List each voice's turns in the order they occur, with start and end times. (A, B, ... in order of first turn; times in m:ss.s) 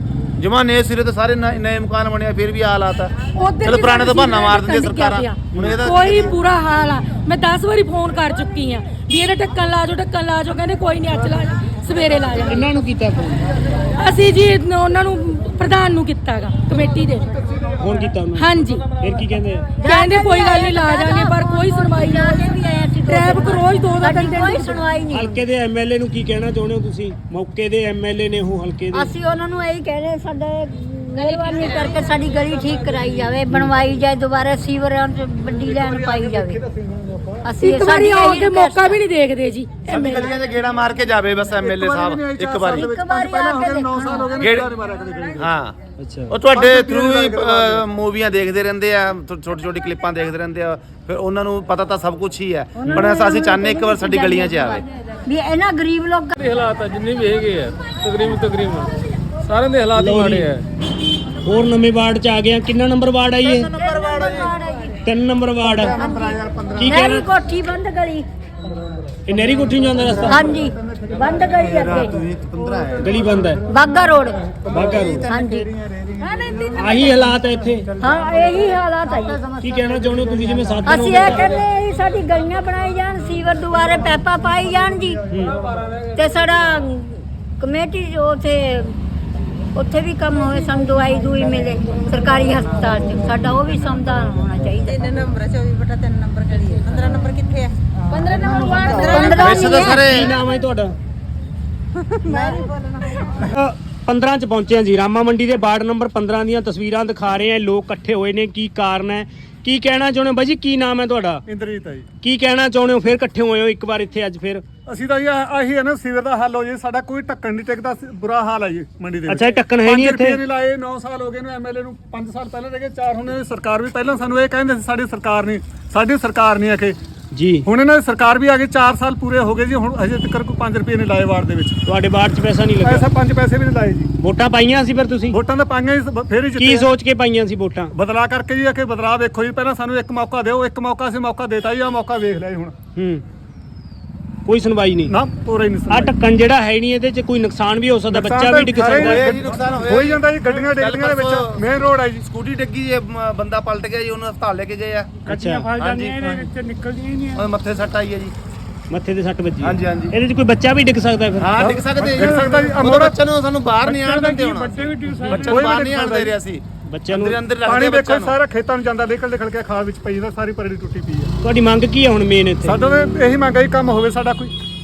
0:00.4-0:06.3 A
0:03.4-0:12.7 B
0:05.4-0:05.8 C
0:12.5-0:13.5 C
0:13.9-0:17.3 B
0:17.8-0:19.7 C
0:18.4-0:18.9 B
0:19.8-0:25.4 D
0:19.8-0:22.5 B
0:23.0-0:24.8 B
0:25.1-0:29.1 C
0:28.9-0:36.6 D
0:35.9-0:36.3 E
0:37.4-0:39.0 D
0:37.6-0:40.3 B
0:39.9-0:42.7 A
0:41.6-0:45.5 E
0:42.7-0:44.4 D
0:44.4-0:44.7 A
0:45.4-0:45.8 A
0:46.0-0:46.4 C
0:46.3-0:54.9 A
0:46.5-0:47.8 E
0:52.8-0:53.1 C
0:53.1-0:56.6 D
0:56.5-0:58.9 F
0:59.5-1:00.5 F
0:59.9-1:00.6 C
1:01.4-1:03.8 C
1:03.8-1:05.0 D
1:05.0-1:06.0 C
1:05.8-1:08.3 D
1:06.7-1:07.3 C
1:09.3-1:10.5 C
1:10.2-1:12.2 D
1:11.8-1:13.0 A
1:13.0-1:13.6 C
1:13.7-1:14.6 D
1:14.7-1:15.3 C
1:15.2-1:15.7 D
1:16.6-1:18.0 C
1:18.0-1:19.5 D
1:19.5-1:21.5 C
1:20.8-1:25.2 D
1:25.3-1:25.6 C
1:26.2-1:29.0 D
1:29.8-1:35.4 D
1:35.5-1:37.6 G
1:38.7-1:39.2 G
1:38.9-1:39.9 D
1:39.1-1:40.3 A
1:39.7-1:41.0 C
1:43.5-1:51.4 C
1:51.5-1:52.1 E
1:52.2-1:54.6 C
1:54.9-2:07.0 E
1:59.3-2:00.4 C
2:07.3-2:07.7 C
2:07.6-2:11.8 E
2:11.9-2:13.1 C
2:12.8-2:14.1 E
2:14.2-2:15.4 C
2:15.3-2:16.9 E
2:16.6-2:17.9 C
2:17.9-2:22.7 E
2:23.0-2:23.2 C
2:24.5-2:25.2 C
2:25.1-2:26.1 E
2:25.9-2:29.3 C
2:28.1-2:32.2 E
2:29.1-2:36.4 A
2:35.3-2:37.4 C
2:37.3-2:38.3 A
2:38.9-2:41.7 C
2:39.6-2:40.2 A
2:41.4-2:48.4 A
2:42.0-2:43.1 E
2:43.9-2:46.3 E
2:44.9-2:45.5 C
2:46.9-2:47.4 C
2:47.7-2:51.3 E
2:51.4-2:52.8 C
2:52.6-2:54.6 E